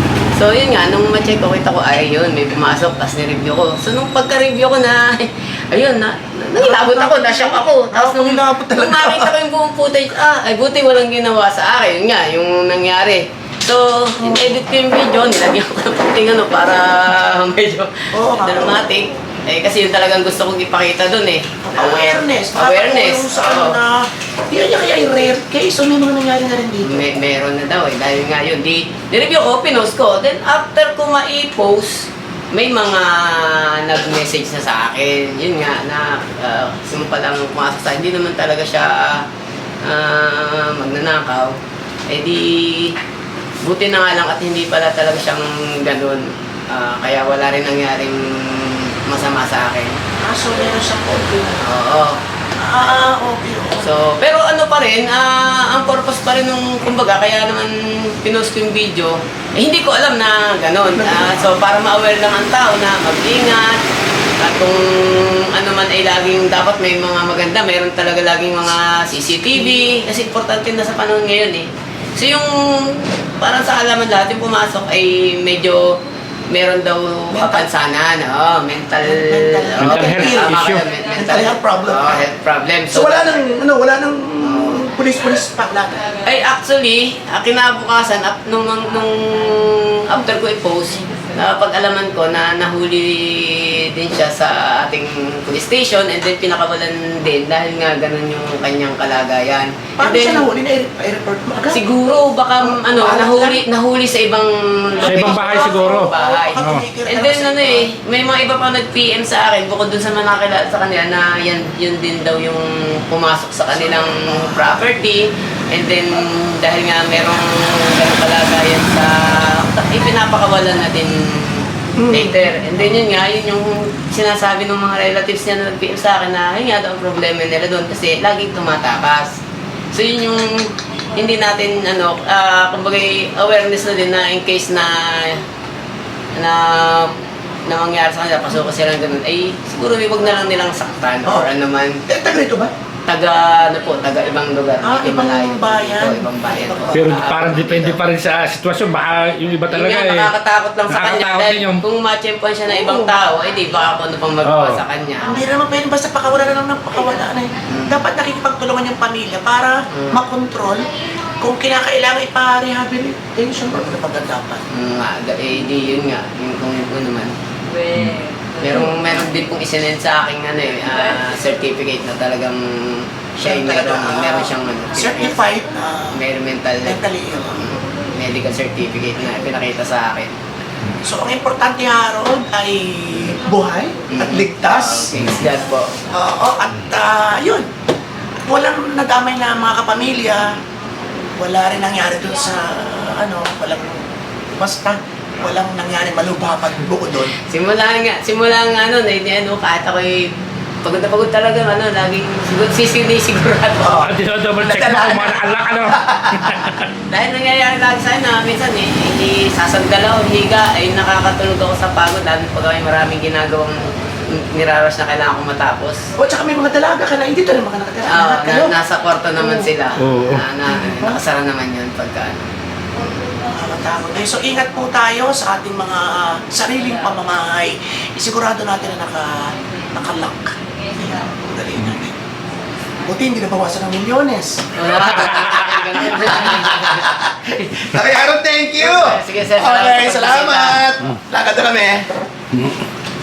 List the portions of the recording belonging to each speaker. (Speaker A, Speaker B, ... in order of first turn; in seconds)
Speaker A: 0.3-23.8, 26.8-39.3, 39.9-41.6, 42.1-43.0, 43.6-50.0, 51.6-52.2, 53.8-63.8, 64.4-76.0, 76.5-83.5, 84.4-84.8, 86.2-100.5, 101.7-129.4, 129.9-135.5, 136.4-137.2, 137.7-142.0, 143.1-148.0, 149.7-155.4, 157.7-158.0, 159.9-160.2, 164.7-167.3, 168.0-175.5, 176.1-177.0, 177.5-180.3, 184.1-185.9, 197.4-204.1, 207.1-216.1, 218.1-222.4, 234.8-237.7, 238.8-240.8
Speaker B: 6.5-9.4, 14.2-14.5, 18.1-19.0, 21.6-27.1, 50.2-51.7, 52.6-53.9, 60.9-61.6, 77.3-77.7, 79.0-82.2, 82.9-86.1, 100.0-103.7, 105.0-107.9, 113.7-114.8, 122.0-122.8, 141.2-141.5, 142.1-142.7, 144.8-147.5, 152.7-153.1, 155.2-164.6, 173.4-176.2, 176.8-177.7, 181.0-185.4, 186.1-187.7, 188.5-190.6, 191.4-194.1, 194.6-197.4, 204.6-206.8, 216.2-218.8, 219.4-219.7, 220.7-221.2, 223.4-232.2, 233.1-234.7, 235.3-242.1
Speaker C: 79.8-80.8, 105.1-106.8, 146.9-150.3, 150.9-151.8, 154.4-154.8, 185.1-185.5, 203.8-206.9, 220.0-220.4, 235.1-235.8, 242.5-242.8